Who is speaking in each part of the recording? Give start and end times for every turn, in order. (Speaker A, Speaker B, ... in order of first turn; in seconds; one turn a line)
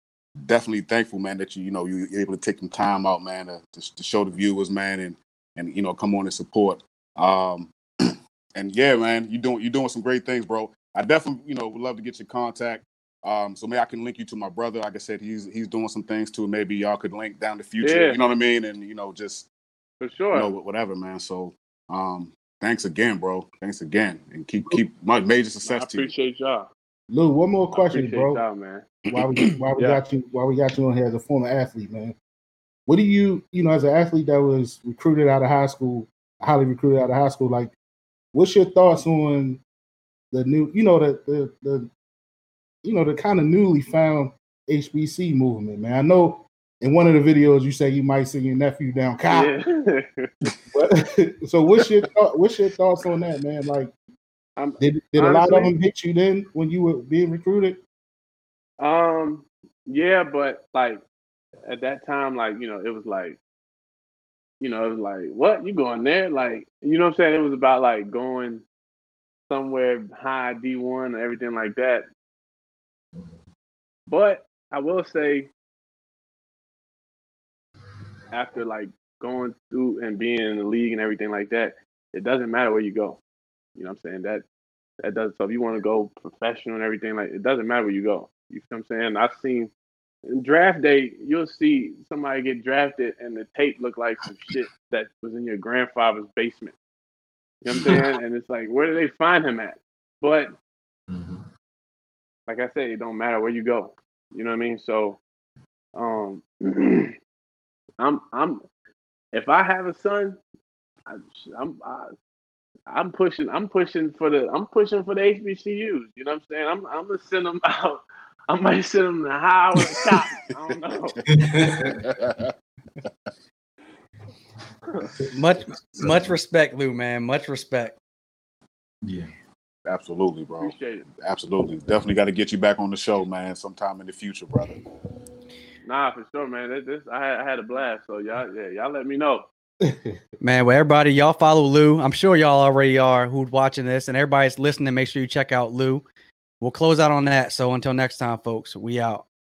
Speaker A: 0.4-19.5
Speaker B: 17.8-18.2
Speaker B: 20.0-20.5
Speaker A: 20.3-26.1
Speaker B: 25.6-26.7
Speaker C: 27.1-28.4
Speaker B: 27.7-29.0
Speaker C: 29.1-32.1
Speaker C: 32.9-37.7
Speaker C: 38.3-39.6
Speaker C: 40.3-41.9
Speaker C: 42.8-49.5
Speaker B: 49.3-50.3
Speaker C: 50.7-53.9
Speaker B: 54.6-55.7
Speaker C: 54.8-57.8
Speaker B: 58.8-61.0
Speaker B: 61.7-63.4
Speaker B: 64.6-68.6
Speaker B: 69.5-72.0
Speaker B: 74.1-75.5
Speaker B: 78.3-83.2
Speaker B: 83.8-84.5
Speaker B: 85.0-89.7
Speaker B: 90.3-96.8
Speaker B: 97.6-100.5
Speaker D: 97.7-98.0
Speaker D: 101.1-101.4
Speaker B: 102.5-105.2
Speaker B: 106.0-107.1
Speaker B: 108.0-108.6
Speaker B: 109.3-110.4
Speaker B: 111.1-112.1
Speaker B: 112.9-121.2
Speaker A: 120.5-121.2
Speaker D: 121.3-122.1
Speaker A: 122.0-122.5
Speaker E: 125.3-128.0
Speaker D: 125.8-126.3
Speaker D: 129.1-129.3
Speaker A: 129.9-134.8
Speaker B: 130.6-131.1
Speaker B: 135.8-139.4
Speaker C: 139.8-140.2
Speaker E: 140.4-146.0
Speaker E: 146.6-149.2